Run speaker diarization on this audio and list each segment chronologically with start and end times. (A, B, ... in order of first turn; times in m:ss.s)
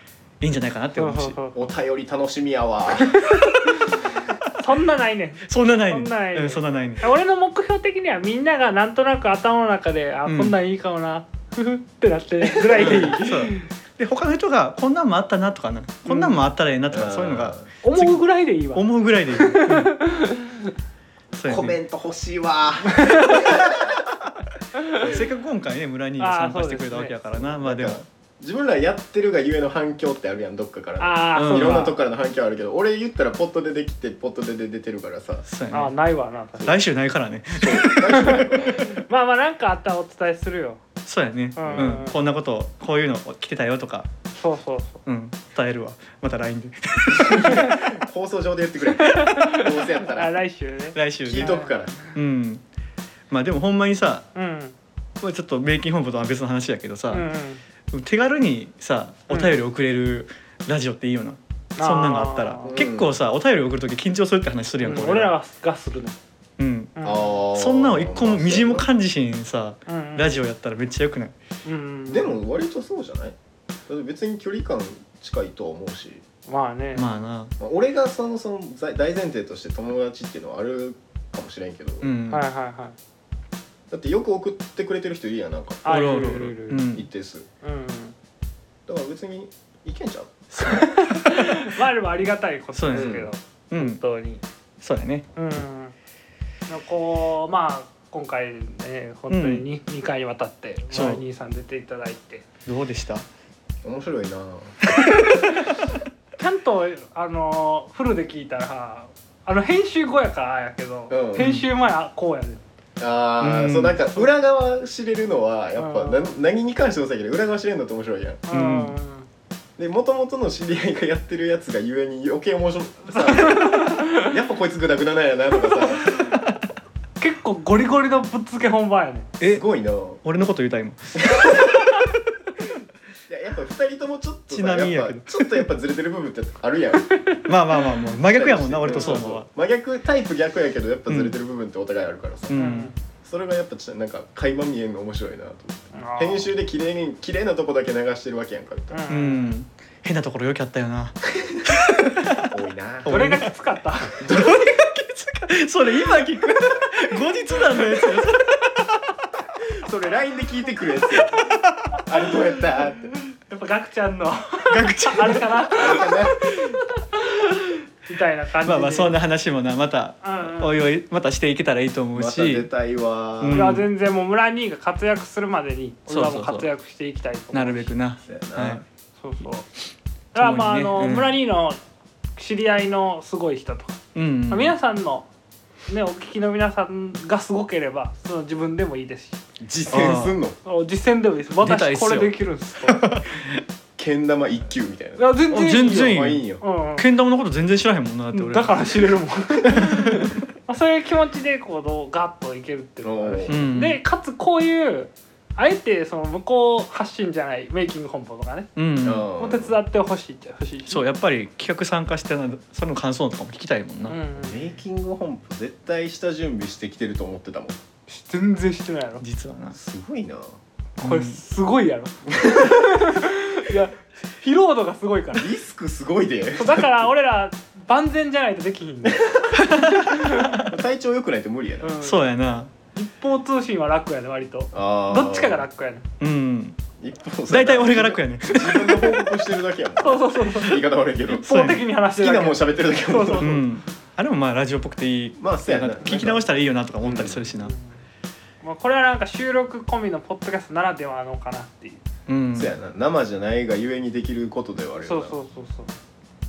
0:00.4-0:01.4 A
0:01.0-0:01.6 B
0:01.6-0:03.2 C
0:03.0-0:13.7 B
0:05.5-0:07.1 A
0:10.3-0:10.6 A
0:12.4-0:13.2 C
0:12.8-0:19.9 A
0:16.1-0:16.4 B
0:16.9-0:17.7 C
0:17.8-0:20.7 B
0:21.3-0:21.8 A
0:21.4-0:24.0 C
0:23.0-0:23.5 B
0:23.3-0:24.1 A
0:24.8-0:25.0 B
0:24.9-0:28.0 A
0:26.2-0:27.2 B
0:27.3-0:35.5 C
0:31.0-0:32.0 B
0:31.4-0:31.9 A
0:35.5-0:35.9 A
0:35.7-0:36.7 B
0:36.6-0:38.5 A
0:37.6-0:39.0 C
0:38.1-0:40.8 B
0:41.0-0:44.1 A
0:41.6-0:42.2 B
0:41.6-0:42.0 C
0:44.4-0:45.0 B
0:45.1-0:48.0 A
0:47.2-0:50.4 C
0:47.4-0:47.7 B
0:48.9-0:52.1 B
0:51.0-0:51.6 A
0:51.2-0:52.0 C
0:52.1-0:52.6 A
0:53.3-0:54.3 A
0:54.4-0:54.8 B
0:55.2-0:57.3 A
0:57.1-0:57.6 B
0:57.9-1:05.3 A
0:59.3-0:59.6 B
1:01.8-1:02.8 B
1:02.6-1:03.1 C
1:04.8-1:06.2 B
1:06.6-1:11.4 A
1:07.0-1:07.3 B
1:07.0-1:08.9 C
1:09.9-1:10.4 B
1:11.6-1:12.4 B
1:12.1-1:13.4 C
1:13.9-1:16.2 C
1:16.5-1:17.1 B
1:17.0-1:17.5 A
1:17.6-1:22.1 C
1:22.0-1:22.4 A
1:22.3-1:23.0 B
1:23.9-1:26.0 C
1:25.8-1:26.9 B
1:25.9-1:27.1 A
1:26.9-1:27.5 C
1:27.6-1:28.2 B
1:28.9-1:30.4 C
1:30.5-1:31.7 A
1:30.6-1:34.4 B
1:32.8-1:34.0 A
1:32.9-1:33.3 C
1:34.8-1:35.3 A
1:35.4-1:36.0 B
1:36.7-1:42.5 B
1:39.3-1:39.6 A
1:40.9-1:41.2 A
1:42.7-1:43.3 A
1:43.8-1:44.8 C
1:46.4-1:52.6 B
1:51.1-1:51.5 C
1:51.4-1:51.7 A
1:53.0-1:58.4 C
1:53.4-1:54.0 A
1:55.8-1:56.4 B
1:58.5-1:59.3 B
1:58.5-1:59.0 A
1:59.8-2:06.3 C
2:03.1-2:04.3 B
2:07.2-2:09.3 B
2:09.4-2:10.2 C
2:10.2-2:11.9 A
2:11.3-2:11.6 C
2:13.3-2:17.1 C
2:14.5-2:15.6 A
2:17.2-2:17.4 B
2:17.5-2:19.5 A
2:18.3-2:22.7 C
2:18.9-2:19.2 B
2:21.1-2:21.4 A
2:22.5-2:22.9 A
2:22.5-2:23.0 B
2:23.2-2:29.1 C
2:25.9-2:26.5 B
2:28.9-2:29.6 B
2:29.1-2:32.5 A
2:32.5-2:33.1 C
2:33.0-2:33.5 A
2:33.1-2:34.4 B
2:34.2-2:39.1 A
2:34.2-2:34.6 C
2:39.8-2:41.5 C
2:41.4-2:42.0 A
2:42.0-2:43.1 C
2:43.1-2:49.2 B
2:44.7-2:45.7 A
2:45.8-2:46.4 C
2:48.6-2:52.7 A
2:50.2-2:50.8 B
2:52.1-2:53.7 C
2:53.4-2:53.9 A
2:53.5-2:57.9 B
2:56.1-2:56.7 A
2:57.5-2:58.8 A
2:58.2-2:58.8 C
2:59.2-2:59.7 B
3:00.4-3:01.8 B
3:00.4-3:01.4 A
3:02.4-3:05.3 B
3:04.2-3:04.8 A
3:05.9-3:09.4 B
3:09.6-3:10.6 C
3:09.9-3:10.4 A
3:10.6-3:13.0 B
3:11.6-3:13.6 A
3:14.0-3:15.4 C
3:15.2-3:17.1 B
3:15.5-3:16.4 A
3:16.0-3:16.6 C
3:17.0-3:19.2 A
3:18.3-3:28.7 B
3:19.7-3:20.4 A
3:23.0-3:23.6 C
3:23.5-3:24.0 A
3:28.8-3:29.3 A
3:29.0-3:29.8 C
3:29.4-3:31.0 B
3:30.9-3:34.2 A
3:34.1-3:34.7 B
3:34.4-3:37.8 C
3:38.1-3:39.2 B
3:39.2-3:39.8 A
3:39.7-3:40.6 C
3:41.0-3:41.4 A
3:41.0-3:45.5 B
3:42.4-3:42.8 C
3:45.3-3:46.9 C
3:46.6-3:50.6 B
3:49.1-3:49.6 C
3:49.6-3:50.7 A
3:50.5-3:52.0 C
3:51.8-3:52.3 B
3:52.0-3:52.7 A
3:52.9-3:56.0 B
3:54.7-3:55.6 C
3:56.2-3:56.8 A
3:57.0-4:01.6 C
3:57.5-3:59.2 A
4:00.0-4:03.6 B
4:01.3-4:01.9 A
4:02.2-4:03.6 C
4:03.4-4:07.7 A
4:05.4-4:06.5 C
4:07.0-4:07.4 C
4:07.5-4:08.0 B
4:08.6-4:12.0 B
4:12.3-4:12.7 A
4:12.5-4:15.4 C
4:15.0-4:15.9 B